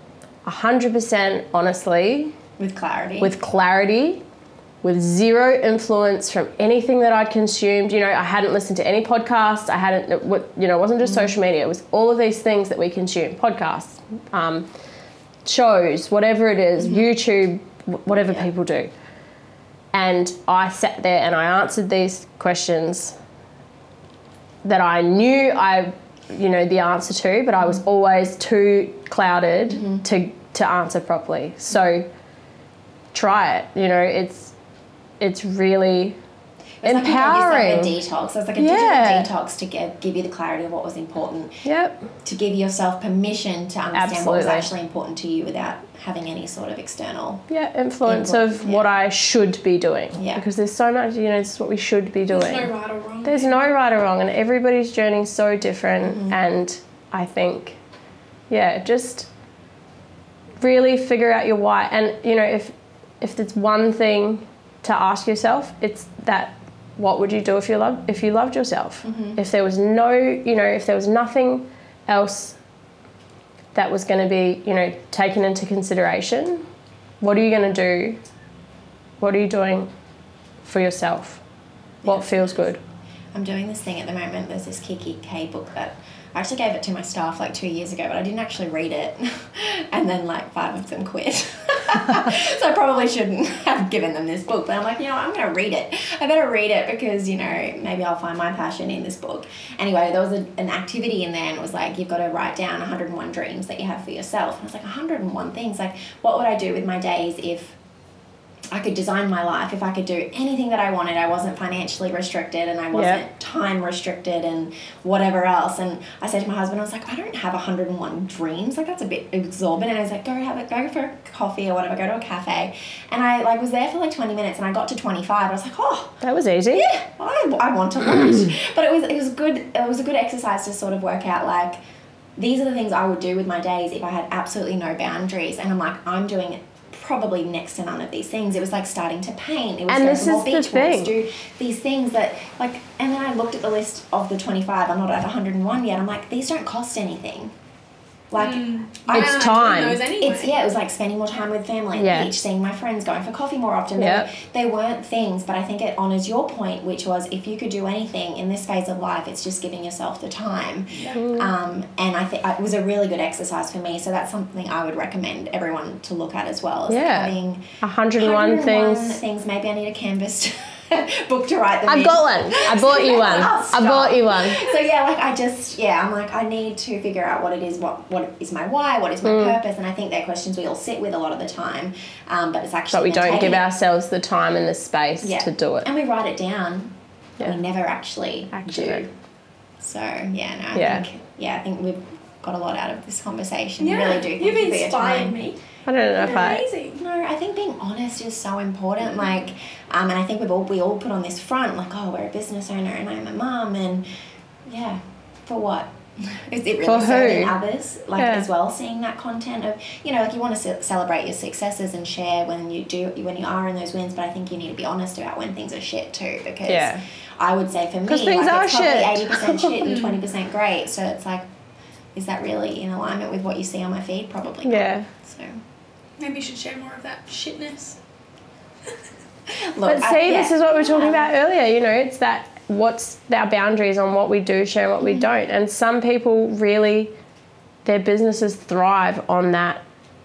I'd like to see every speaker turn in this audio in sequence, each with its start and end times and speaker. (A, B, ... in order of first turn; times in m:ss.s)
0:00.4-0:02.3 A
0:02.6-0:03.3 B
0:03.2-0:04.2 A
0:04.8-0:14.7 A
0:11.0-0:11.3 B
0:15.4-0:18.9 A
0:16.8-0:17.1 B
0:19.9-0:23.2 A
0:24.6-0:32.1 A
0:29.7-0:30.0 B
0:33.1-0:34.5 A
0:35.2-0:36.2 A
0:36.8-0:41.6 B
0:36.8-0:37.9 A
0:38.6-0:39.3 A
0:41.6-0:42.1 A
0:42.2-0:47.4 B
0:43.9-0:44.7 A
0:47.5-0:52.7 A
0:48.0-0:48.9 B
0:50.1-0:50.4 B
0:52.3-0:53.5 C
0:53.2-0:57.8 A
0:56.0-0:56.4 B
0:58.5-0:59.3 A
1:00.6-1:12.6 A
1:09.0-1:09.4 B
1:13.7-1:16.6 A
1:17.2-1:18.2 A
1:19.2-1:19.9 A
1:20.6-1:21.4 A
1:22.0-1:22.6 B
1:22.0-1:22.8 A
1:23.3-1:47.8 B
1:48.7-2:06.2 B
1:52.9-1:53.2 A
2:06.2-2:06.9 A
2:06.7-2:11.8 B
2:08.2-2:08.5 A
2:12.4-2:27.5 B
2:19.9-2:21.1 A
2:28.3-2:29.4 B
2:28.4-2:30.6 C
2:29.1-2:30.0 A
2:30.2-3:03.7 B
2:32.0-2:32.3 A
2:34.0-2:34.3 A
2:41.1-2:41.5 A
2:46.9-2:49.2 A
2:51.8-2:54.7 A
2:59.2-2:59.6 A
3:02.9-3:05.9 A
3:05.2-3:09.1 B
3:08.5-3:09.1 A
3:09.8-3:15.4 B
3:10.7-3:11.0 A
3:13.8-3:15.6 C
3:15.8-3:16.7 A
3:16.1-3:17.0 C
3:17.0-3:24.0 B
3:24.7-3:41.5 B
3:26.8-3:27.6 A
3:28.2-3:28.5 A
3:36.6-3:37.0 A
3:38.1-3:39.7 A
3:39.8-3:40.2 C
3:42.1-3:45.6 B
3:44.6-3:45.1 A
3:46.2-3:48.0 C
3:49.5-3:51.3 B
3:49.8-3:57.1 A
3:57.8-3:59.8 A